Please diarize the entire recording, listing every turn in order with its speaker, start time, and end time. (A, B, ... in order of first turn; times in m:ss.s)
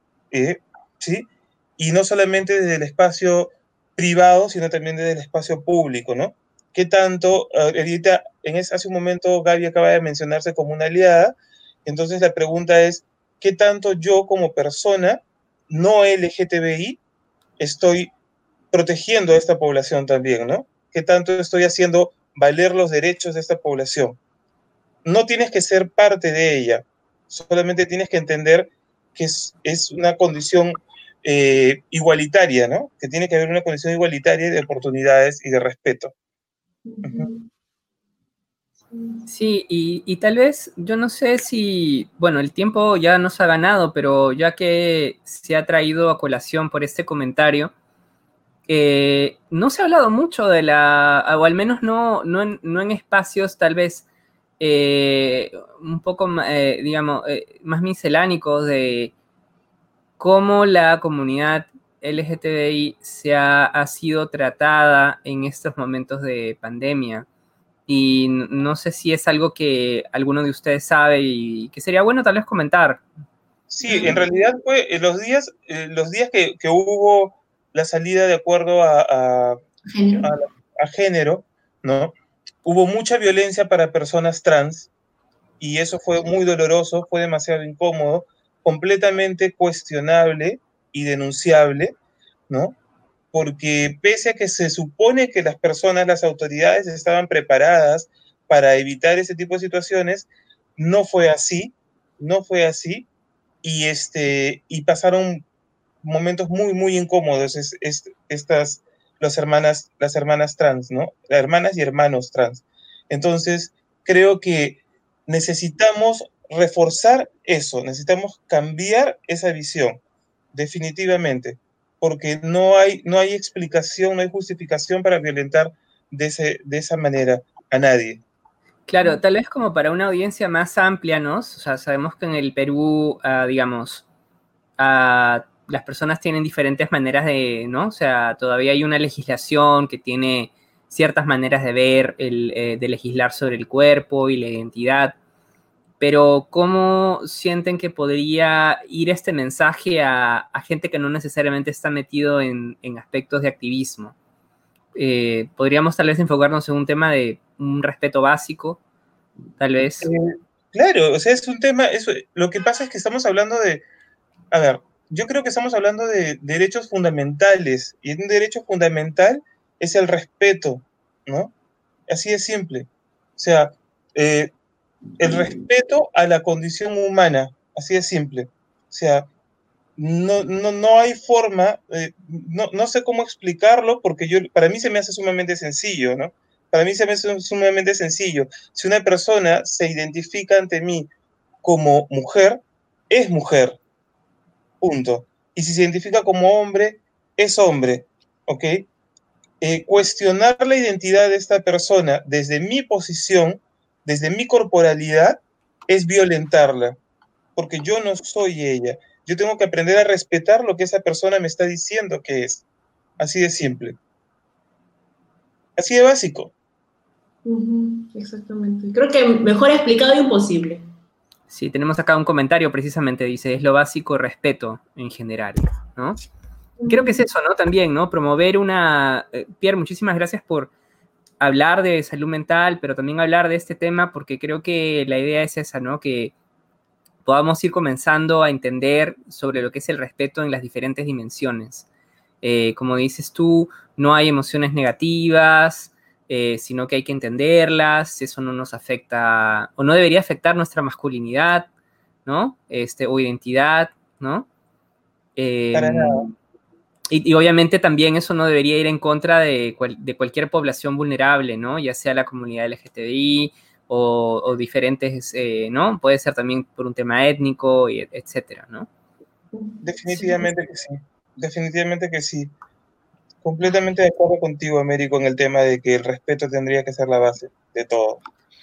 0:00.3-0:17.0 A
0:17.6-0:18.1 A
0:18.7-0:24.2 A
0:25.0-0:36.1 A
0:36.8-0:37.5 B
0:38.9-0:39.2 B
0:39.3-0:47.7 C
0:48.7-0:54.0 C
0:54.6-0:59.1 C
1:00.2-1:07.3 C
1:07.9-1:13.0 C
1:13.7-1:19.6 A
1:13.8-1:14.3 B
1:19.9-1:20.3 B
1:20.2-1:22.1 A
1:22.6-1:24.9 A
1:25.6-1:31.9 A
1:32.5-1:32.8 A
1:33.3-1:43.1 A
1:43.6-1:45.4 A
1:46.0-2:00.0 A
2:00.5-2:08.2 A
2:08.9-2:14.0 C
2:14.8-2:25.2 C
2:26.0-2:34.1 C
2:34.9-2:38.8 C
2:39.6-2:40.1 C
2:40.0-2:43.8 A
2:44.5-2:51.5 A
2:52.1-2:54.5 A
2:55.2-2:59.3 A
3:00.0-3:11.1 A
3:11.6-3:13.8 A
3:14.8-3:18.8 A
3:19.6-3:27.0 A
3:27.6-3:32.6 A
3:33.2-3:34.0 A
3:35.8-3:36.5 A
3:37.4-3:40.8 B
3:41.5-3:46.2 C
3:46.8-3:47.3 B
3:46.9-3:50.7 C
3:51.4-3:56.3 C
3:57.2-4:01.9 C
4:02.4-4:11.7 C
4:12.2-4:14.5 C
4:15.4-4:16.3 C
4:15.7-4:16.3 A
4:17.1-4:28.9 C
4:29.5-4:30.5 B
4:29.8-4:32.5 A
4:33.4-4:38.2 A